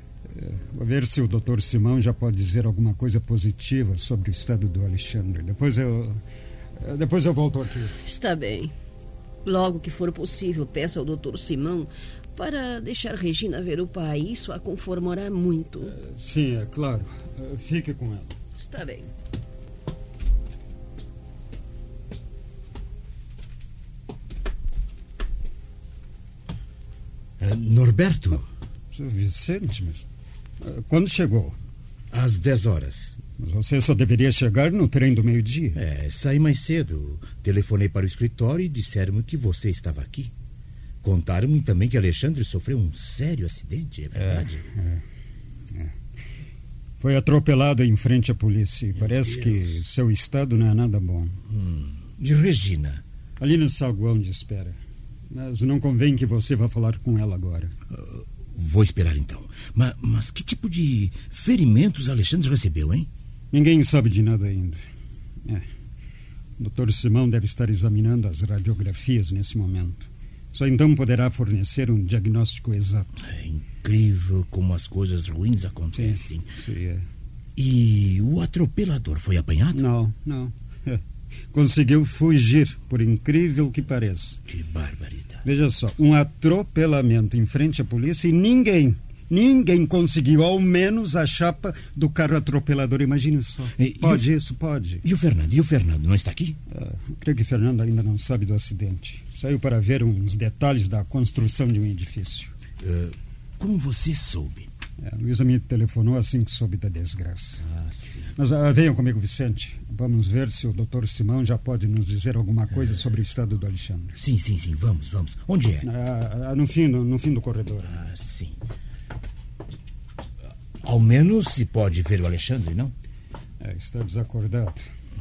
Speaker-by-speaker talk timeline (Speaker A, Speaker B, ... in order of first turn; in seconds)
Speaker A: 0.3-6.2, 6.8-8.0, 15.8-18.4, 28.9-30.1, 30.6-31.6, 33.4-35.8, 44.1-45.0, 47.0-51.4, 53.4-54.8, 55.3-57.7, 63.5-64.8, 66.6-73.2, 76.0-77.0, 79.7-81.0, 81.5-84.4, 85.4-95.0, 96.7-102.5, 105.0-107.6, 108.3-114.2, 115.8-118.0, 123.6-124.9
Speaker B: 8.0-8.7, 9.4-15.9, 18.6-19.1
Speaker C: 27.4-28.4, 32.1-33.2, 35.7-40.3, 41.0-44.6, 49.0-49.8, 51.4-53.0, 57.9-63.1, 73.2-76.5, 77.5-79.8, 84.5-85.4, 93.8-94.2, 95.0-96.6, 102.8-104.7, 107.6-108.3, 114.2-115.9, 117.8-118.6, 120.8-122.9